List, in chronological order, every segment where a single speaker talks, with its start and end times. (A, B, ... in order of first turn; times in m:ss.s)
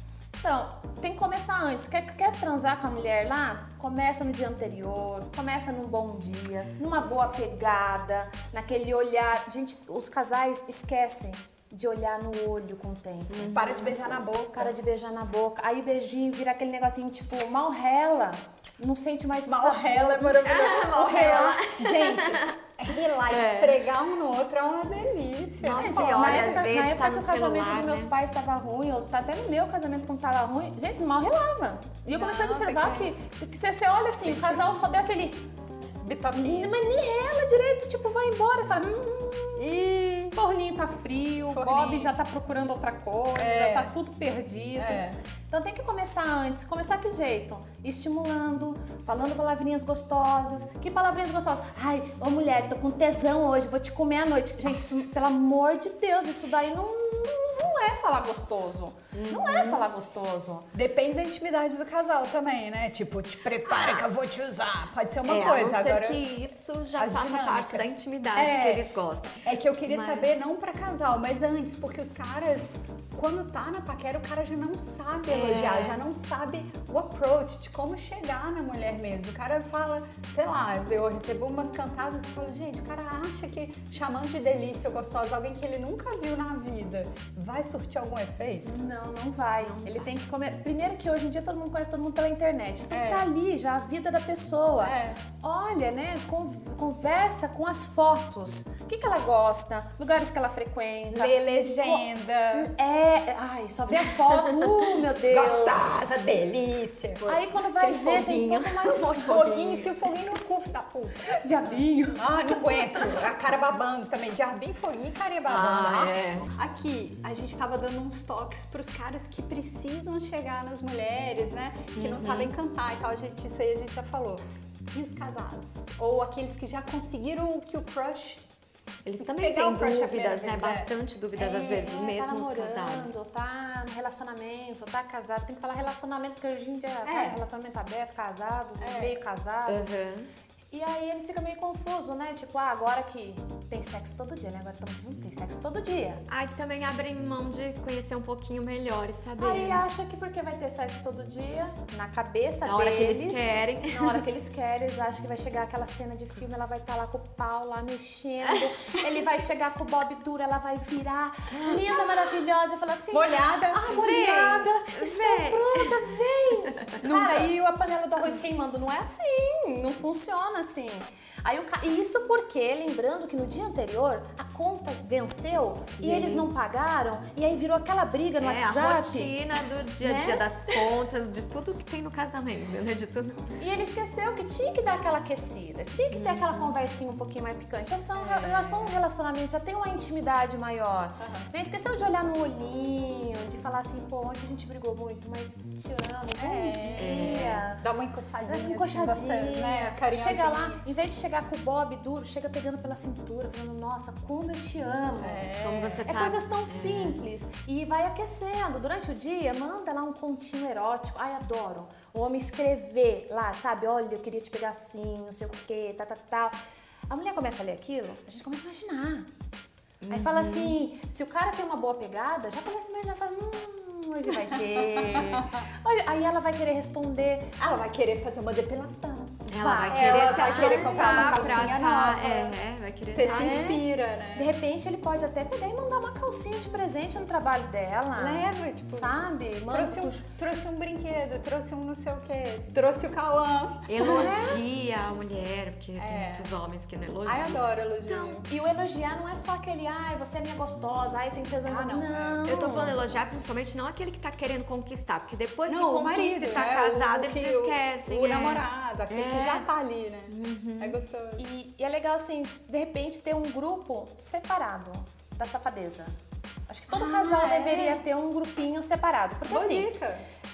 0:00.4-0:13.6 A
0:13.3-0:14.2 B
0:13.5-0:14.8 C
0:14.5-0:20.5 A
0:19.4-0:26.7 C
0:20.4-0:23.9 B
0:25.6-0:28.1 B
0:25.7-0:35.4 A
0:32.2-0:33.1 C
0:34.2-0:34.6 C
0:36.0-0:36.8 C
0:36.3-0:39.8 A
0:39.6-0:40.4 C
0:40.3-1:00.7 A
0:41.4-0:42.1 C
0:43.3-0:43.9 C
0:44.8-0:45.2 C
0:59.1-0:59.9 B
1:00.7-1:06.2 C
1:03.6-1:04.1 B
1:05.2-1:10.3 B
1:07.0-1:08.9 C
1:09.4-1:28.8 C
1:15.3-1:16.0 B
1:28.6-1:46.2 A
1:29.6-1:30.1 B
1:32.9-1:33.3 C
1:34.8-1:35.2 C
1:41.1-1:42.7 C
1:45.3-1:47.2 C
1:47.2-1:50.0 B
1:47.2-1:49.4 A
1:49.2-1:51.2 C
1:51.4-1:52.3 A
1:52.2-2:04.4 C
1:55.4-1:56.5 B
2:02.0-2:02.5 B
2:04.9-2:08.4 C
2:09.0-2:13.1 B
2:09.2-2:10.9 C
2:11.3-2:19.9 A
2:17.0-2:17.4 C
2:18.8-2:19.2 C
2:19.7-2:20.3 B
2:20.7-2:26.2 A
2:26.3-2:29.8 B
2:29.4-3:00.9 A
2:32.6-2:34.2 B
2:41.5-2:42.4 B
2:43.1-2:43.8 C
2:43.9-2:46.0 B
2:46.8-2:47.1 B
2:56.0-2:56.5 B
2:58.4-3:03.6 B
3:03.6-3:17.8 A
3:06.1-3:06.7 B
3:08.1-3:09.0 C
3:11.2-3:11.5 C
3:16.4-3:20.8 C
3:17.0-3:17.6 B
3:18.5-3:25.5 A
3:25.2-3:26.0 C
3:25.6-3:27.2 B
3:26.0-3:36.5 A
3:37.1-3:39.2 A
3:40.0-3:40.8 B
3:40.1-3:47.5 A
3:45.0-3:45.5 C
3:47.6-3:52.5 C
3:49.5-3:53.8 B
3:49.6-3:51.8 A
3:53.1-3:54.5 C
3:53.2-4:00.2 A
3:58.2-4:04.6 C
4:03.9-4:08.4 B
4:04.0-4:04.6 A
4:06.0-4:06.5 C
4:07.2-4:08.4 C
4:08.4-4:13.0 A
4:11.6-4:12.4 C
4:12.4-4:19.7 B
4:15.7-4:21.4 C
4:20.3-4:21.0 B
4:21.4-4:26.1 A
4:26.7-4:29.9 A
4:26.9-4:28.0 C
4:29.4-4:30.2 C